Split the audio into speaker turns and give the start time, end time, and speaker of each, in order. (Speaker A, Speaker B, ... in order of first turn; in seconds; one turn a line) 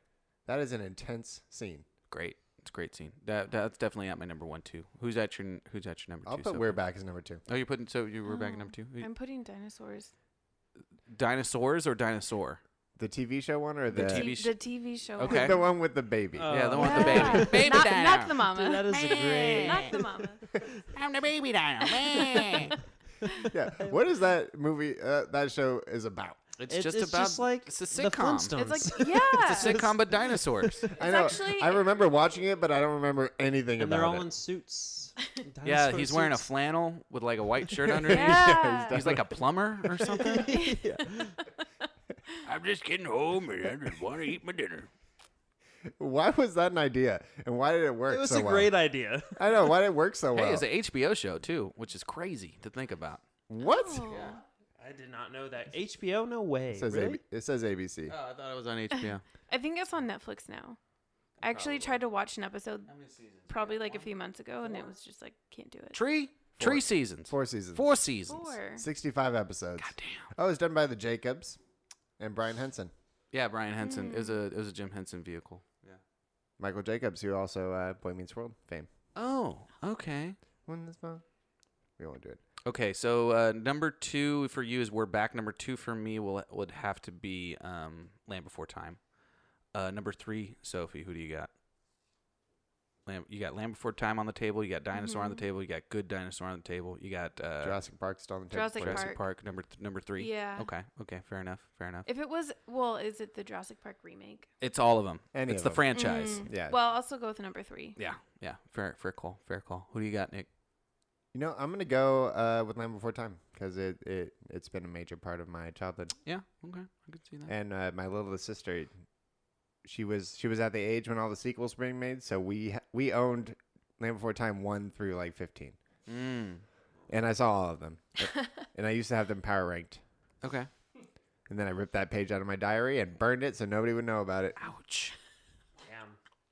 Speaker A: 0.5-1.9
Speaker B: 2.1-6.8
Speaker A: 6.2-7.4
Speaker B: 7.5-9.1
Speaker C: 8.3-10.1
Speaker B: 11.1-12.6
Speaker A: 13.0-14.3
Speaker B: 13.9-14.6
Speaker C: 14.1-15.7
Speaker B: 15.2-15.6
Speaker A: 15.2-17.2
Speaker D: 16.4-20.1
Speaker B: 16.5-20.0
Speaker C: 16.8-20.6
Speaker B: 20.9-22.8
Speaker D: 23.3-23.9
Speaker A: 23.5-26.4
Speaker B: 26.6-28.6
Speaker D: 26.7-29.6
Speaker C: 28.6-29.8
Speaker B: 29.4-30.9
Speaker A: 29.6-30.0
Speaker A: 30.8-34.3
Speaker C: 30.9-31.9
Speaker D: 33.8-36.5
Speaker B: 35.6-40.5
Speaker A: 37.8-40.3
Speaker C: 38.1-39.0
Speaker C: 40.3-41.6
Speaker D: 40.4-41.3
Speaker B: 42.4-44.9
Speaker A: 46.0-48.7
Speaker D: 48.1-49.4
Speaker A: 49.4-50.6
Speaker B: 50.3-53.2
Speaker A: 53.5-54.2
Speaker C: 53.6-54.4
Speaker B: 54.1-54.4
Speaker D: 54.8-57.2
Speaker A: 56.7-58.1
Speaker B: 58.1-59.2
Speaker C: 59.0-60.8
Speaker C: 61.4-62.9
Speaker B: 61.4-62.0
Speaker B: 62.9-64.1
Speaker C: 63.5-66.0
Speaker B: 65.9-68.6
Speaker A: 66.6-67.9
Speaker C: 68.3-68.8
Speaker A: 68.7-71.6
Speaker B: 69.8-70.3
Speaker A: 72.2-72.9
Speaker B: 73.3-76.0
Speaker C: 73.8-74.4
Speaker A: 76.6-78.9
Speaker B: 79.2-80.4
Speaker A: 80.7-81.2
Speaker A: 82.0-82.4
Speaker B: 82.6-89.0
Speaker B: 89.7-91.5
Speaker B: 93.0-97.8
Speaker C: 94.9-95.4
Speaker A: 97.6-99.1
Speaker C: 98.5-99.2
Speaker B: 98.8-102.1
Speaker C: 100.2-100.7
Speaker C: 102.0-104.5
Speaker B: 104.6-106.4
Speaker A: 105.3-106.7
Speaker C: 105.9-108.0
Speaker B: 108.0-110.5
Speaker A: 111.3-116.1
Speaker B: 116.2-117.5
Speaker A: 117.5-118.9
Speaker A: 119.8-125.8
Speaker B: 126.1-126.6
Speaker A: 127.1-130.0
Speaker B: 130.4-130.7
Speaker A: 131.5-134.6
Speaker B: 134.6-135.1
Speaker D: 135.8-136.2